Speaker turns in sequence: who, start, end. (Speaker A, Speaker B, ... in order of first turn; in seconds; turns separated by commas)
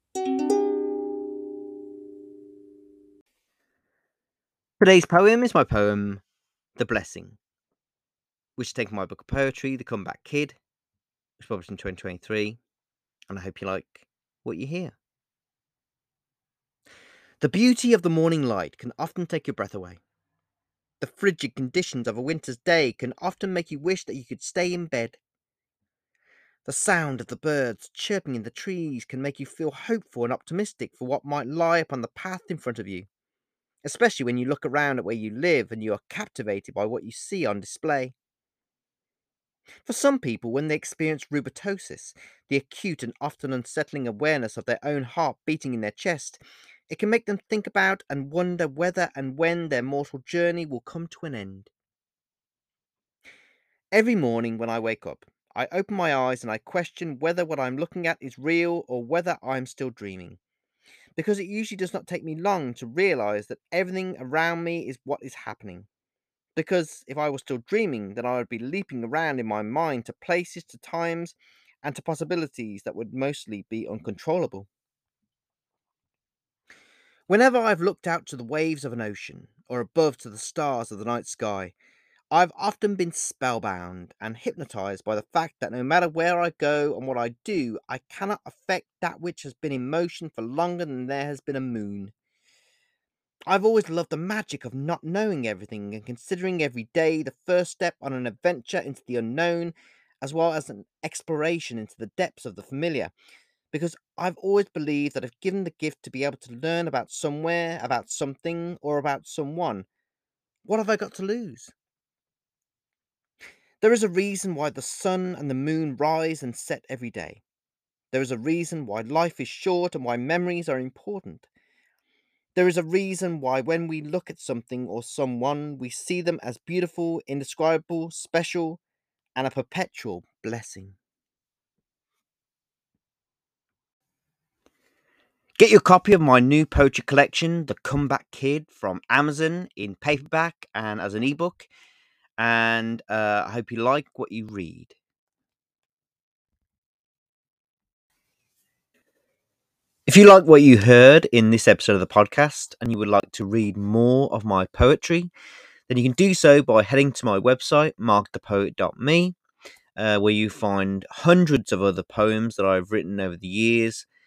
Speaker A: 4.8-6.2, Speaker A: 6.8-7.4, Speaker A: 8.6-10.6, Speaker A: 11.4-12.6, Speaker A: 13.3-15.0, Speaker A: 17.4-20.0, Speaker A: 21.0-25.2, Speaker A: 26.6-33.1, Speaker A: 33.8-38.1, Speaker A: 39.9-51.7, Speaker A: 53.9-60.4, Speaker A: 61.2-65.9, Speaker A: 66.6-74.7, Speaker A: 77.3-81.7, Speaker A: 82.3-92.1, Speaker A: 93.5-103.1, Speaker A: 103.7-109.9, Speaker A: 110.7-111.7, Speaker A: 113.8-117.4, Speaker A: 118.1-121.5, Speaker A: 122.5-128.8, Speaker A: 129.4-131.0, Speaker A: 135.6-141.7, Speaker A: 142.4-145.0, Speaker A: 150.1-155.3, Speaker A: 155.9-159.4, Speaker A: 160.0-164.1